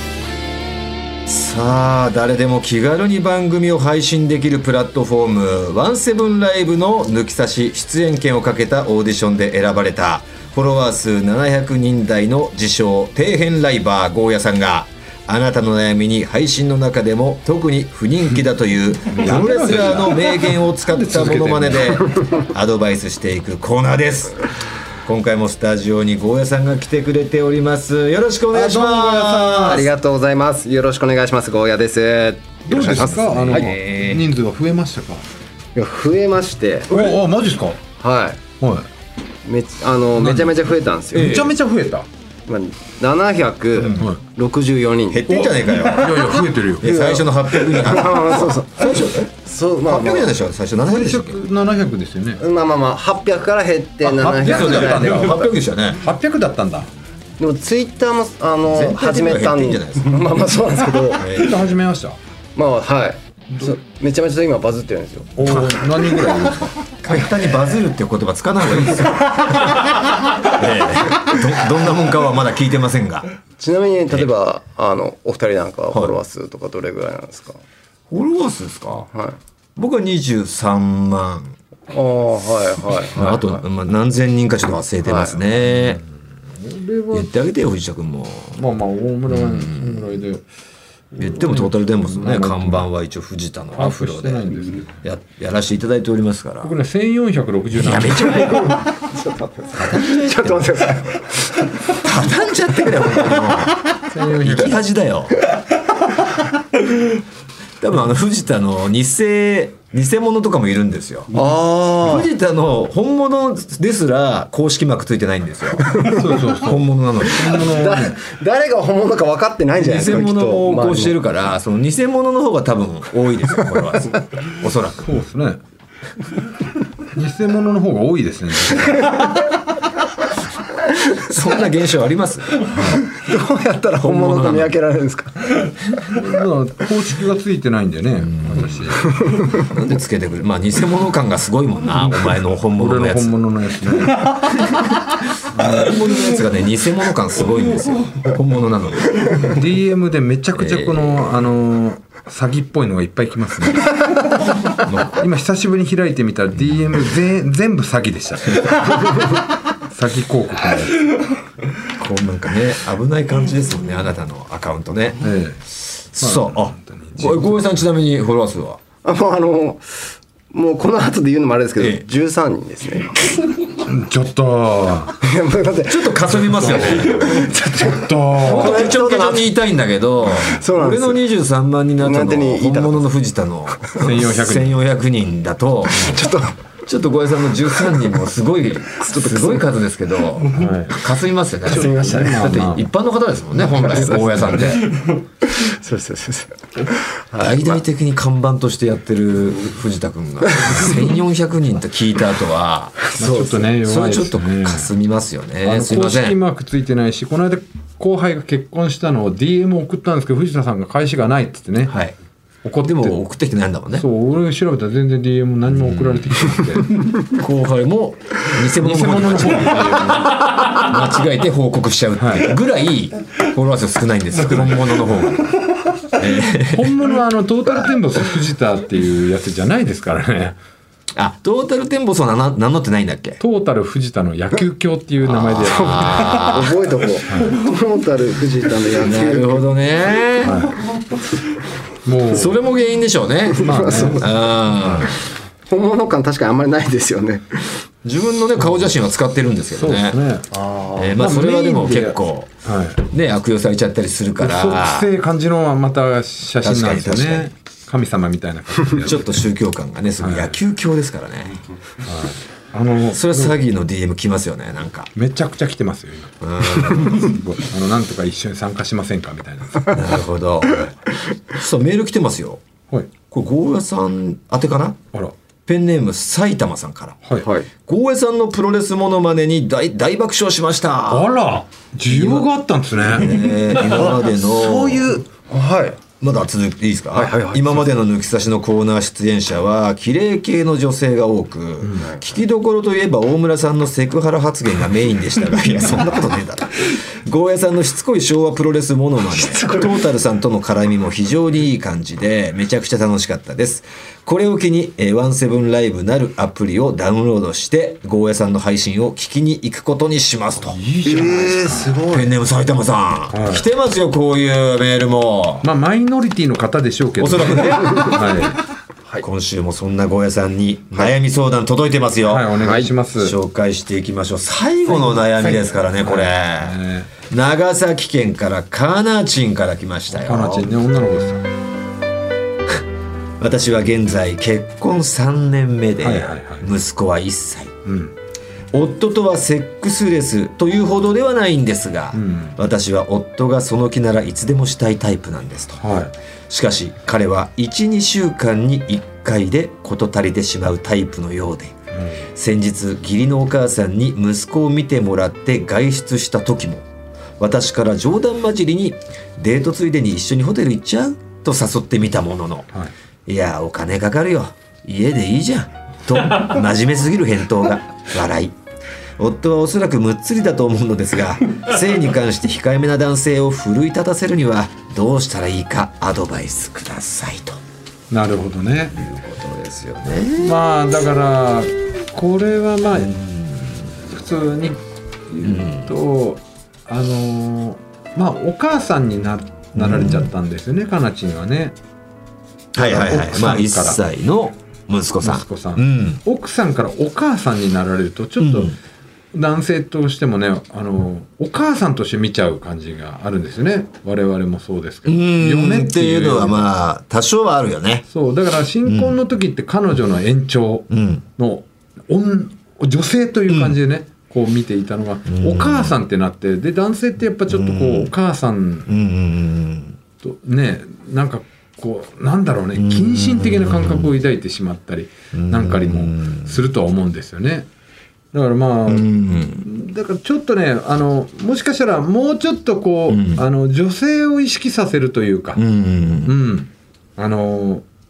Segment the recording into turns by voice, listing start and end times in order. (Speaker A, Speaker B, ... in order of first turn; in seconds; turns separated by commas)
Speaker A: 1.3-24.4, Speaker B: 19.1-22.1, Speaker A: 25.1-29.9, Speaker B: 28.5-29.9, Speaker C: 29.6-33.7, Speaker B: 32.7-35.2, Speaker A: 33.4-34.2, Speaker C: 35.8-37.1, Speaker B: 36.9-37.8, Speaker C: 38.0-38.4, Speaker B: 38.6-38.9, Speaker C: 39.5-41.5, Speaker B: 40.2-40.6, Speaker B: 41.1-42.1, Speaker C: 42.5-46.2, Speaker A: 43.8-44.1, Speaker A: 45.1-49.3, Speaker B: 45.5-46.9, Speaker C: 46.8-50.3, Speaker A: 49.9-51.4, Speaker B: 50.8-52.4, Speaker C: 52.4-55.4, Speaker B: 54.0-56.9, Speaker A: 54.4-56.0, Speaker C: 57.4-61.3, Speaker A: 58.6-60.2, Speaker A: 61.2-61.7, Speaker B: 61.3-62.2, Speaker C: 62.6-65.5, Speaker B: 65.4-66.7, Speaker A: 65.5-65.8, Speaker A: 67.0-69.8, Speaker A: 70.4-73.3, Speaker C: 73.6-77.6, Speaker A: 78.1-79.1, Speaker C: 79.1-79.4, Speaker A: 79.8-81.6, Speaker C: 81.9-83.6, Speaker A: 83.1-86.0, Speaker C: 85.0-85.4, Speaker B: 85.7-86.0, Speaker B: 86.6-87.3, Speaker A: 87.1-88.6, Speaker B: 88.5-90.5, Speaker A: 89.3-90.2, Speaker B: 91.1-92.9, Speaker A: 91.2-94.5, Speaker B: 93.8-95.0, Speaker A: 95.0-96.7, Speaker B: 96.6-98.3, Speaker A: 97.7-98.8, Speaker C: 98.3-101.7, Speaker A: 99.7-100.9, Speaker A: 101.9-103.8, Speaker C: 102.9-103.6, Speaker B: 104.1-104.8, Speaker A: 104.4-105.4, Speaker A: 107.8-111.5, Speaker C: 111.3-112.3, Speaker A: 112.0-117.7, Speaker C: 115.8-116.2, Speaker B: 115.9-118.2, Speaker C: 117.5-121.2, Speaker A: 119.8-125.1, Speaker B: 125.0-125.6, Speaker B: 127.1-129.1, Speaker A: 131.2-132.6, Speaker C: 132.7-135.8, Speaker B: 132.7-133.0, Speaker A: 134.0-134.7, Speaker B: 136.0-139.2, Speaker A: 138.3-138.8, Speaker C: 139.1-139.5, Speaker A: 139.6-144.3, Speaker B: 142.0-144.5, Speaker A: 145.6-149.5, Speaker B: 149.3-154.2, Speaker A: 150.6-151.5, Speaker A: 154.8-155.1, Speaker B: 155.0-161.2, Speaker A: 161.8-165.2, Speaker B: 165.2-165.6, Speaker A: 166.1-168.8, Speaker B: 166.2-167.8, Speaker C: 169.0-173.3, Speaker A: 171.8-172.1, Speaker B: 173.8-175.2, Speaker C: 175.2-179.5, Speaker A: 175.9-177.3, Speaker B: 176.3-178.9, Speaker A: 178.4-186.2, Speaker C: 180.4-181.2, Speaker C: 182.0-183.1, Speaker C: 183.7-184.0, Speaker B: 184.0-184.8, Speaker C: 185.9-186.6, Speaker A: 186.9-195.0, Speaker C: 188.9-189.6, Speaker B: 190.5-191.0, Speaker C: 191.7-192.6, Speaker B: 191.7-192.9, Speaker C: 193.6-197.8, Speaker B: 194.2-194.6, Speaker A: 197.4-203.0, Speaker C: 203.1-203.7, Speaker B: 203.2-204.9, Speaker A: 203.8-206.4, Speaker B: 205.6-212.0, Speaker A: 211.9-212.2, Speaker B: 212.6-213.2, Speaker A: 212.8-214.1, Speaker B: 213.9-217.1, Speaker A: 215.7-216.4, Speaker A: 217.1-225.6, Speaker B: 218.8-220.7, Speaker B: 222.2-222.5, Speaker A: 226.1-227.0, Speaker B: 226.6-230.6, Speaker A: 231.2-233.4, Speaker B: 233.4-236.6, Speaker A: 235.2-236.9, Speaker C: 235.6-239.7, Speaker A: 239.0-240.7, Speaker B: 240.4-240.8, Speaker B: 242.1-242.6, Speaker A: 242.3-245.2, Speaker B: 243.6-244.3, Speaker C: 243.6-244.2, Speaker C: 245.7-247.9, Speaker A: 248.1-250.2, Speaker B: 248.7-248.9, Speaker B: 249.7-250.5, Speaker C: 250.5-251.2, Speaker A: 251.0-252.5, Speaker B: 251.2-253.0, Speaker A: 253.1-255.1, Speaker B: 254.4-259.5, Speaker A: 256.6-257.5, Speaker A: 259.0-261.6, Speaker B: 260.2-260.6, Speaker B: 262.0-263.6, Speaker A: 263.1-265.1, Speaker B: 265.1-270.2, Speaker A: 266.4-267.3, Speaker A: 269.9-270.9, Speaker A: 271.5-272.6, Speaker A: 273.3-275.0, Speaker A: 275.7-277.2, Speaker C: 277.4-277.7, Speaker A: 277.8-281.3, Speaker B: 281.1-283.4, Speaker A: 282.1-285.1, Speaker C: 283.6-286.0, Speaker A: 286.2-310.8, Speaker C: 287.1-287.6, Speaker B: 287.7-288.0, Speaker C: 299.3-300.0, Speaker B: 310.6-312.1, Speaker C: 311.1-312.3, Speaker A: 312.1-315.6, Speaker B: 313.3-313.6, Speaker B: 315.6-318.6, Speaker A: 317.2-318.4, Speaker A: 319.2-330.7, Speaker B: 322.2-323.4, Speaker C: 322.6-322.9, Speaker B: 324.9-327.1, Speaker B: 330.1-331.4, Speaker A: 333.4-337.7, Speaker B: 336.0-336.7, Speaker B: 337.9-338.1, Speaker A: 338.7-345.9, Speaker B: 342.1-342.6, Speaker B: 345.8-346.1, Speaker A: 346.5-351.7, Speaker B: 351.9-352.3, Speaker A: 352.4-356.8, Speaker A: 357.4-362.7, Speaker A: 363.3-368.5, Speaker A: 369.2-377.6, Speaker B: 378.1-378.9, Speaker A: 378.9-380.6, Speaker B: 380.4-383.1, Speaker A: 382.9-383.7, Speaker B: 383.9-391.8, Speaker A: 385.4-385.9, Speaker A: 389.8-390.3, Speaker A: 392.8-396.2, Speaker B: 392.8-394.0, Speaker B: 395.2-398.8, Speaker A: 398.4-398.8, Speaker B: 399.3-406.7, Speaker A: 405.1-408.1, Speaker B: 408.1-418.9, Speaker A: 408.9-409.2, Speaker A: 410.9-411.2, Speaker A: 413.5-413.8, Speaker A: 415.3-416.0, Speaker A: 417.5-418.1, Speaker A: 418.9-420.0, Speaker B: 420.2-427.7, Speaker A: 422.8-424.1, Speaker A: 425.3-426.6, Speaker B: 428.3-435.6, Speaker A: 428.9-429.7, Speaker A: 433.1-433.5, Speaker A: 435.6-436.3, Speaker B: 436.2-437.9